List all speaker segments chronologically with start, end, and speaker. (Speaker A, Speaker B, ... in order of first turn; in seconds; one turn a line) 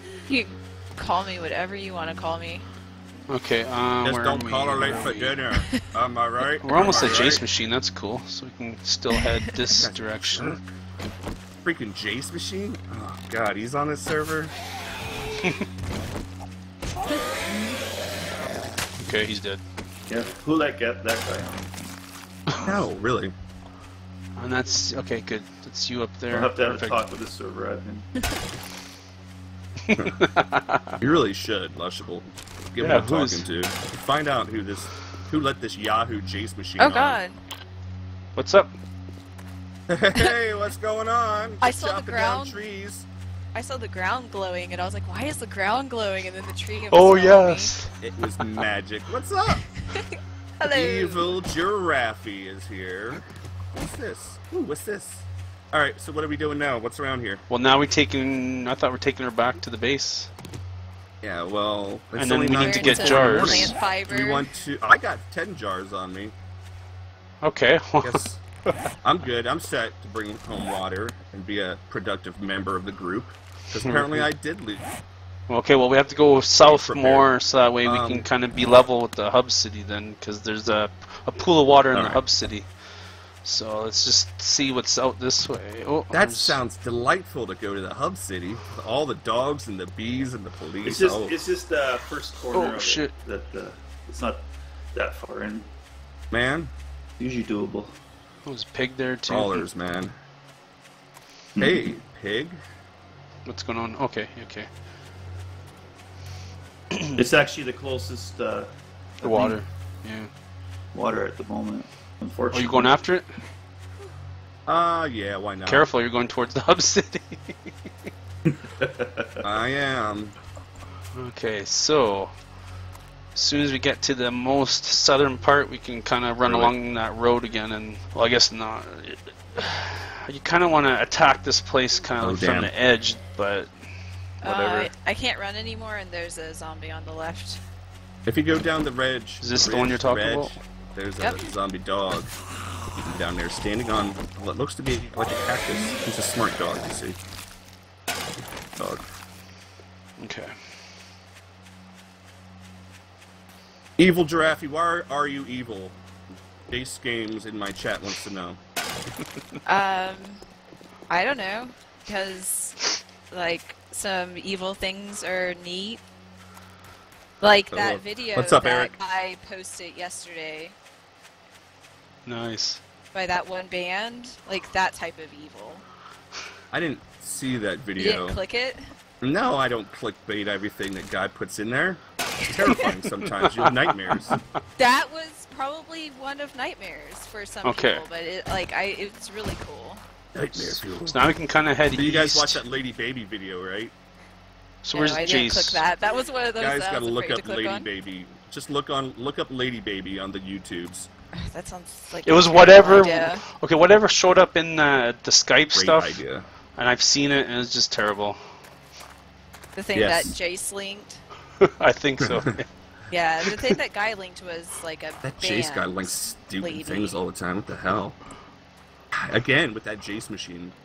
Speaker A: 0.3-2.6
Speaker B: 3.3-5.4
Speaker C: 4.0-7.4
Speaker B: 6.6-10.6
Speaker C: 9.7-10.6
Speaker C: 11.6-14.5
Speaker B: 19.0-19.6
Speaker D: 20.1-21.7
Speaker B: 22.5-22.8
Speaker C: 22.6-23.3
Speaker B: 24.4-27.0
Speaker D: 26.3-28.1
Speaker B: 29.8-31.0
Speaker C: 31.0-37.2
Speaker B: 32.8-33.5
Speaker A: 36.8-37.4
Speaker B: 38.4-38.7
Speaker C: 39.9-43.1
Speaker A: 41.6-42.6
Speaker A: 43.5-47.7
Speaker B: 46.9-47.9
Speaker C: 48.0-49.6
Speaker A: 49.9-51.3
Speaker C: 50.7-57.4
Speaker B: 57.5-60.3
Speaker C: 61.2-66.3
Speaker B: 62.1-63.7
Speaker A: 62.5-64.5
Speaker B: 67.4-68.2
Speaker C: 68.0-68.4
Speaker C: 69.0-74.8
Speaker B: 73.8-74.3
Speaker B: 75.5-82.7
Speaker C: 76.6-77.3
Speaker C: 77.8-78.3
Speaker C: 81.9-82.2
Speaker B: 83.4-86.6
Speaker C: 86.1-91.3
Speaker D: 90.8-94.4
Speaker B: 92.5-93.1
Speaker D: 94.9-95.7
Speaker C: 96.3-96.7
Speaker D: 97.2-97.9
Speaker B: 98.5-99.7
Speaker C: 99.3-100.1
Speaker D: 101.5-101.9
Speaker C: 101.6-102.6
Speaker B: 103.5-104.7
Speaker D: 107.1-108.7
Speaker D: 109.2-109.6
Speaker B: 109.2-110.3
Speaker D: 110.9-112.9
Speaker B: 112.5-113.3
Speaker C: 114.7-115.9
Speaker B: 115.7-117.7
Speaker D: 118.4-119.4
Speaker C: 119.4-120.3
Speaker B: 121.1-122.3
Speaker B: 123.3-133.7
Speaker C: 126.4-126.7
Speaker C: 132.2-132.7
Speaker B: 134.4-134.9
Speaker A: 134.4-137.6
Speaker C: 138.2-142.3
Speaker B: 139.4-140.5
Speaker A: 141.2-141.5
Speaker C: 143.0-147.2
Speaker B: 150.2-150.5
Speaker C: 154.0-156.0
Speaker C: 156.7-158.6
Speaker A: 159.7-160.4
Speaker A: 161.1-166.0
Speaker A: 167.4-170.7
Speaker C: 167.7-168.9
Speaker B: 172.2-172.8
Speaker A: 173.1-175.8
Speaker C: 176.7-178.4
Speaker A: 178.0-178.8
Speaker C: 179.2-184.4
Speaker B: 182.8-184.4
Speaker A: 184.8-190.0
Speaker B: 187.6-188.0
Speaker C: 190.3-191.3
Speaker B: 190.3-192.6
Speaker C: 191.9-193.9
Speaker B: 194.8-195.8
Speaker A: 194.9-197.9
Speaker C: 196.6-201.1
Speaker A: 201.3-203.4
Speaker B: 202.2-206.2
Speaker C: 205.7-206.4
Speaker B: 206.8-208.4
Speaker A: 209.7-211.2
Speaker C: 209.9-210.3
Speaker B: 211.6-212.7
Speaker C: 212.2-212.5
Speaker A: 213.1-217.2
Speaker C: 215.2-218.2
Speaker C: 219.1-220.7